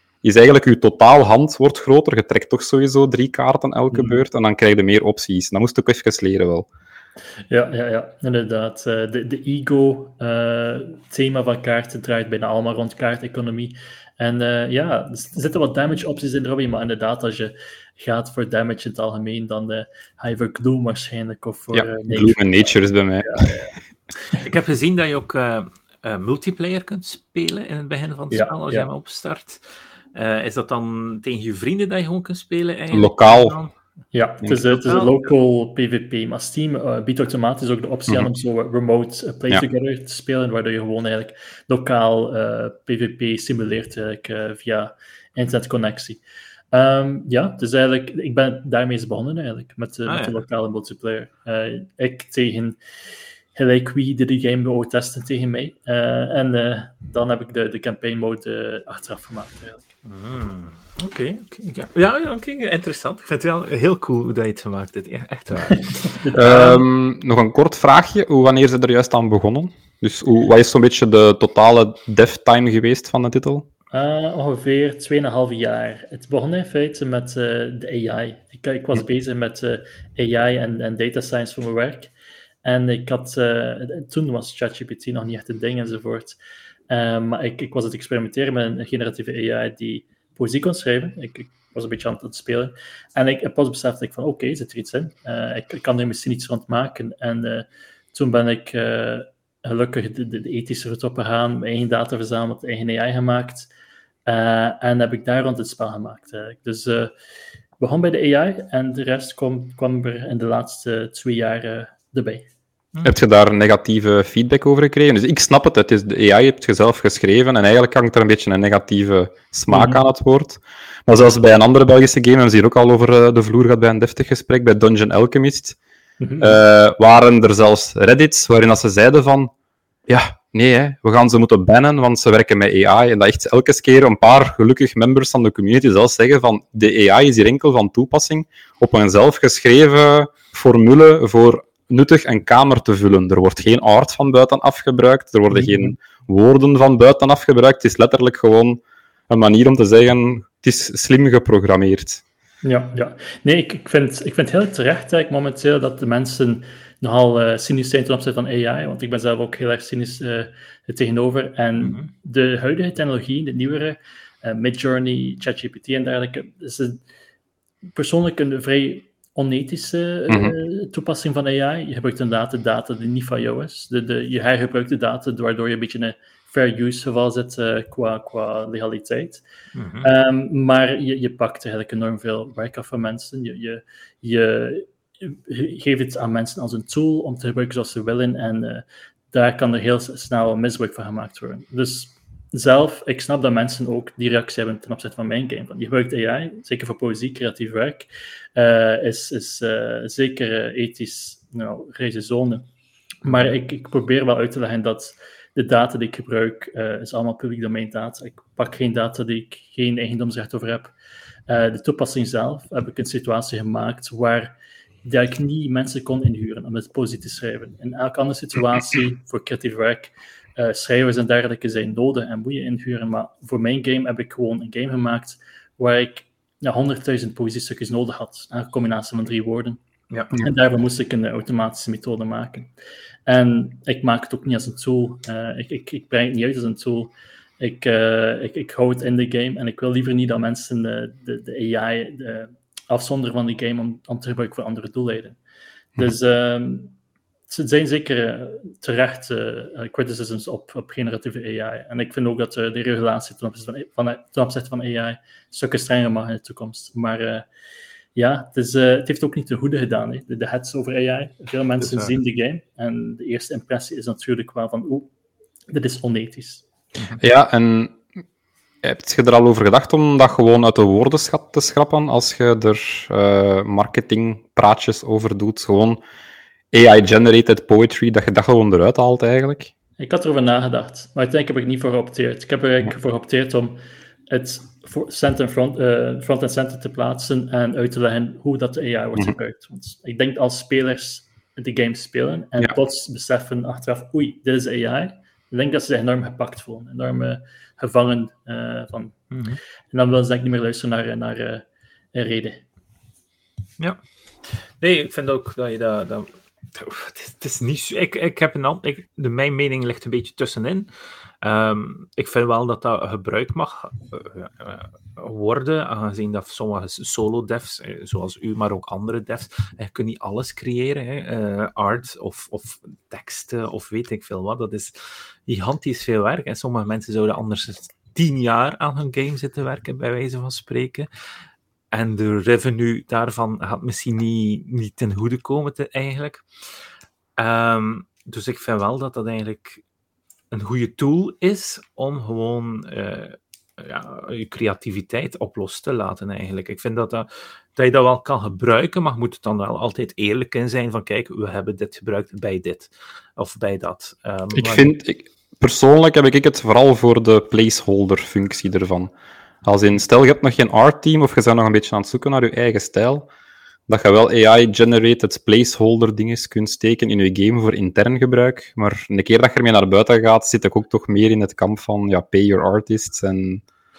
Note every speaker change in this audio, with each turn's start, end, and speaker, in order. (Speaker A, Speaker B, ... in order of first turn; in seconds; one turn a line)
Speaker A: 0.2-6.7
Speaker B: 3.9-4.2
Speaker B: 7.5-22.5
Speaker A: 21.7-23.5
Speaker B: 23.2-23.7
Speaker C: 24.4-29.6
Speaker B: 28.3-28.9
Speaker C: 30.1-33.7
Speaker A: 32.9-33.5
Speaker B: 34.1-46.2
Speaker C: 34.8-35.1
Speaker B: 46.7-52.8
Speaker C: 50.1-50.4
Speaker B: 53.5-59.8
Speaker C: 60.0-66.8
Speaker B: 66.0-66.6
Speaker A: 66.3-73.7
Speaker B: 73.9-82.1
Speaker B: 82.6-86.3
Speaker B: 86.9-103.7
Speaker B: 104.2-107.1
Speaker B: 107.8-112.5
Speaker A: 113.0-125.8
Speaker B: 119.7-120.0
Speaker B: 126.2-126.6
Speaker A: 126.4-129.5
Speaker A: 130.1-152.2
Speaker B: 145.5-145.9
Speaker B: 152.6-167.0
Speaker C: 161.8-162.1
Speaker B: 167.9-179.4
Speaker A: 170.3-170.5
Speaker C: 179.7-180.1
Speaker B: 180.0-202.7
Speaker B: 203.2-210.9
Speaker B: 211.5-229.8
Speaker C: 230.1-230.4
Speaker B: 230.3-232.7
Speaker B: 233.3-245.4
Speaker B: 246.0-246.9
Speaker B: 247.5-257.5
Speaker B: 258.1-265.1
Speaker C: 261.8-262.1
Speaker B: 265.7-266.6
Speaker A: 267.2-268.0
Speaker A: 268.8-276.0
Speaker A: 276.7-279.7
Speaker B: 280.0-283.8
Speaker B: 284.3-299.3
Speaker C: 299.3-299.6
Speaker B: 299.9-302.6
Speaker C: 303.8-310.9
Speaker C: 311.4-331.1
Speaker C: 331.9-336.4
Speaker C: 337.4-339.8
Speaker C: 340.5-354.9
Speaker A: 354.6-359.1
Speaker A: 359.6-363.3
Speaker A: 363.9-373.6